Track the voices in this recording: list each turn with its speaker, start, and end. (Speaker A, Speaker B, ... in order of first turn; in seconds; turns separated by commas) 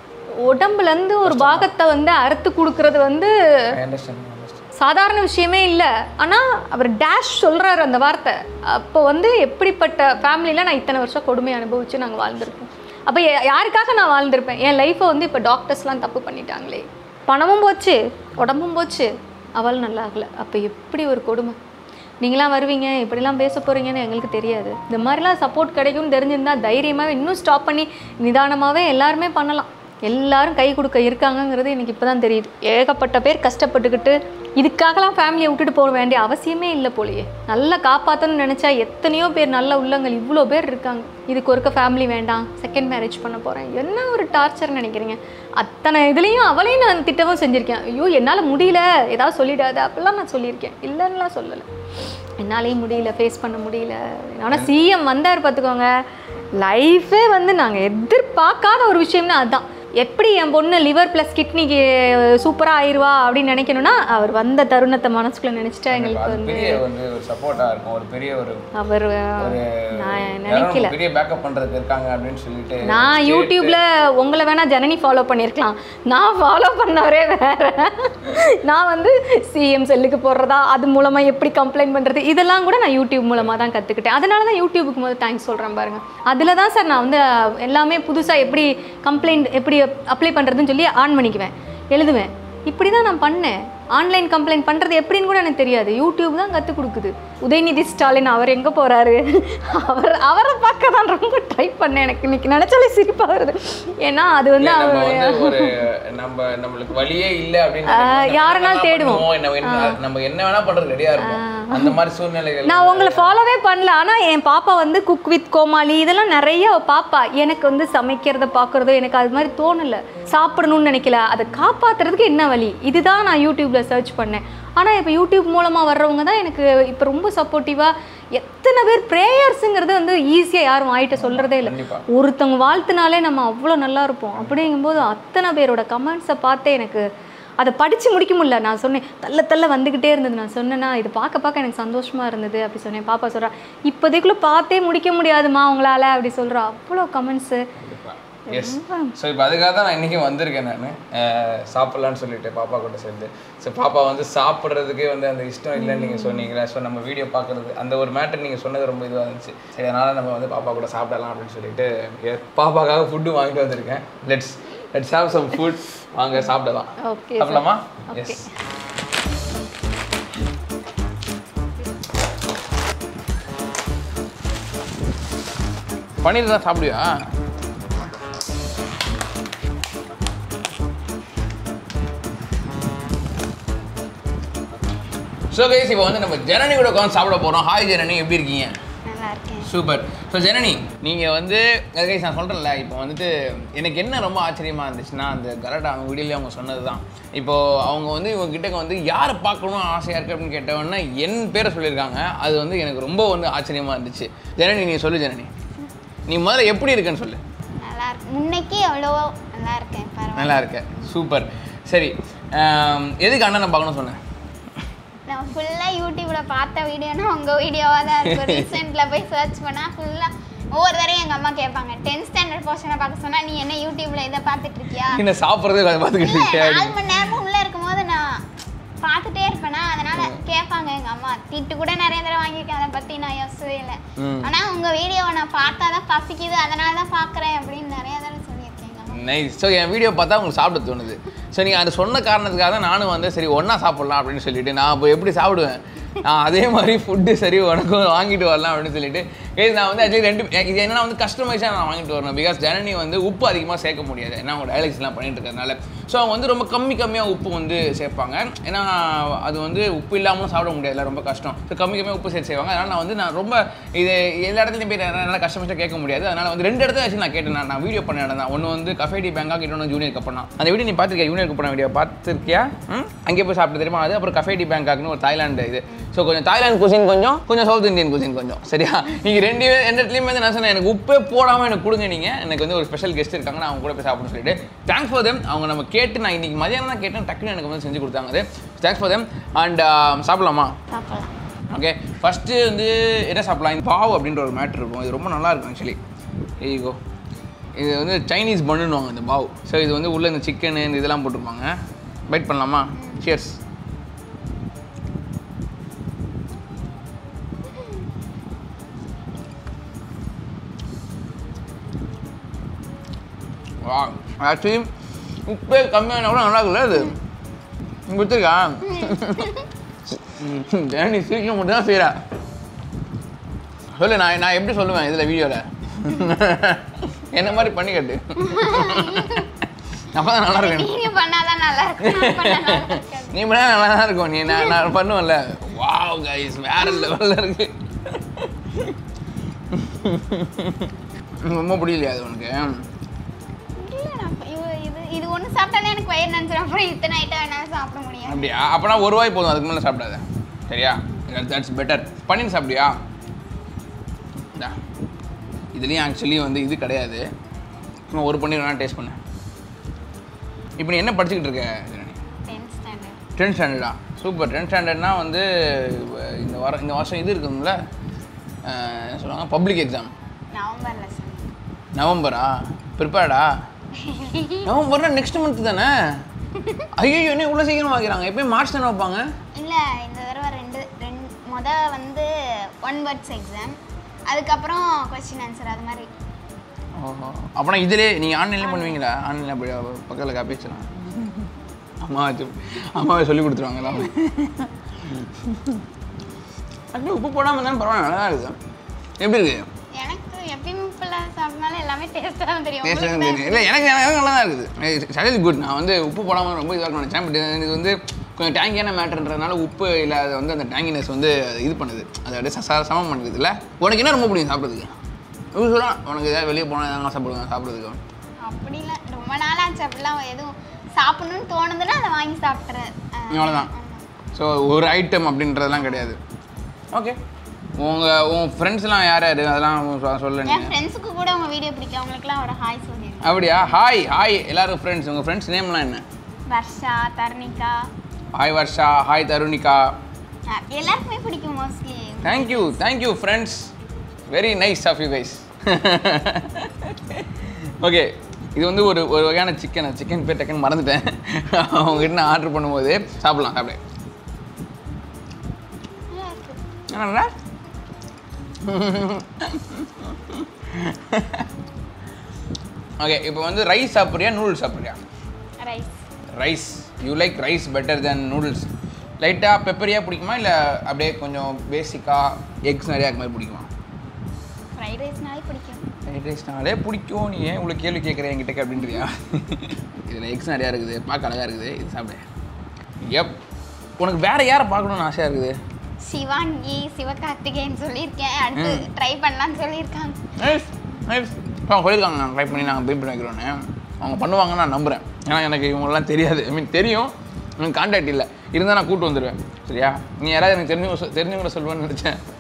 Speaker A: 0.4-3.7, Speaker B: 1.2-1.7, Speaker B: 3.7-4.7, Speaker A: 4.8-21.6, Speaker A: 22.2-51.7, Speaker A: 52.4-55.9, Speaker A: 56.6-66.8, Speaker B: 65.9-68.7, Speaker A: 68.8-70.9, Speaker B: 69.4-73.8, Speaker A: 72.8-105.9, Speaker B: 104.6-113.3, Speaker A: 107.9-110.0, Speaker A: 111.2-112.0, Speaker A: 112.7-137.1, Speaker B: 131.2-132.0, Speaker A: 137.6-147.7, Speaker B: 147.8-168.4, Speaker A: 148.5-149.1, Speaker A: 155.8-156.5, Speaker A: 167.0-168.4, Speaker B: 176.2-177.3, Speaker B: 185.5-188.7, Speaker C: 189.0-189.7, Speaker B: 189.6-205.5, Speaker B: 206.3-207.4, Speaker C: 207.8-211.1, Speaker B: 210.4-214.2, Speaker C: 215.3-225.2, Speaker B: 218.2-218.7, Speaker B: 225.1-227.2, Speaker C: 226.2-228.4, Speaker C: 229.0-239.2, Speaker B: 230.2-230.4, Speaker B: 234.2-234.5, Speaker B: 239.1-290.8, Speaker C: 290.9-291.3, Speaker B: 291.7-296.0, Speaker B: 296.6-297.0, Speaker B: 297.8-301.7, Speaker B: 302.3-303.6, Speaker C: 302.9-303.2, Speaker C: 307.6-308.0, Speaker B: 313.8-314.9, Speaker B: 315.5-317.2, Speaker B: 318.1-319.5, Speaker C: 318.9-319.7, Speaker B: 320.2-322.2, Speaker B: 324.0-331.0, Speaker C: 328.4-329.5, Speaker C: 330.2-333.4, Speaker B: 332.0-338.9, Speaker C: 334.5-334.8, Speaker B: 339.7-340.9, Speaker B: 341.4-342.8, Speaker C: 343.8-348.5, Speaker B: 348.3-353.0, Speaker B: 355.7-357.2, Speaker B: 358.1-359.2, Speaker B: 360.8-362.2, Speaker C: 362.5-363.2, Speaker B: 363.4-367.8, Speaker B: 368.6-370.1, Speaker C: 370.5-371.5, Speaker B: 371.9-373.6, Speaker C: 373.9-374.7, Speaker B: 374.6-376.2, Speaker C: 376.5-376.9, Speaker B: 376.9-379.3, Speaker C: 379.5-383.8, Speaker C: 384.3-386.1, Speaker B: 387.0-395.8, Speaker C: 388.6-389.0, Speaker B: 396.9-398.6, Speaker B: 399.2-399.7, Speaker C: 399.9-403.8, Speaker B: 402.8-414.9, Speaker B: 415.5-418.0, Speaker C: 418.4-424.0, Speaker B: 423.3-423.7, Speaker B: 424.3-426.2, Speaker B: 426.9-427.2, Speaker B: 427.8-430.8, Speaker C: 430.4-433.4, Speaker B: 433.2-436.0, Speaker C: 436.5-437.9, Speaker B: 438.3-439.9, Speaker C: 440.5-442.8, Speaker B: 442.2-443.7, Speaker B: 444.3-453.8, Speaker C: 456.1-456.6, Speaker B: 456.9-457.3, Speaker B: 458.6-461.5, Speaker B: 463.0-465.0, Speaker C: 465.6-466.0, Speaker B: 466.3-473.7, Speaker C: 474.8-475.9, Speaker B: 476.1-482.2, Speaker B: 483.0-483.4, Speaker B: 484.0-485.6, Speaker C: 486.0-490.2, Speaker B: 488.6-488.9, Speaker B: 490.4-502.2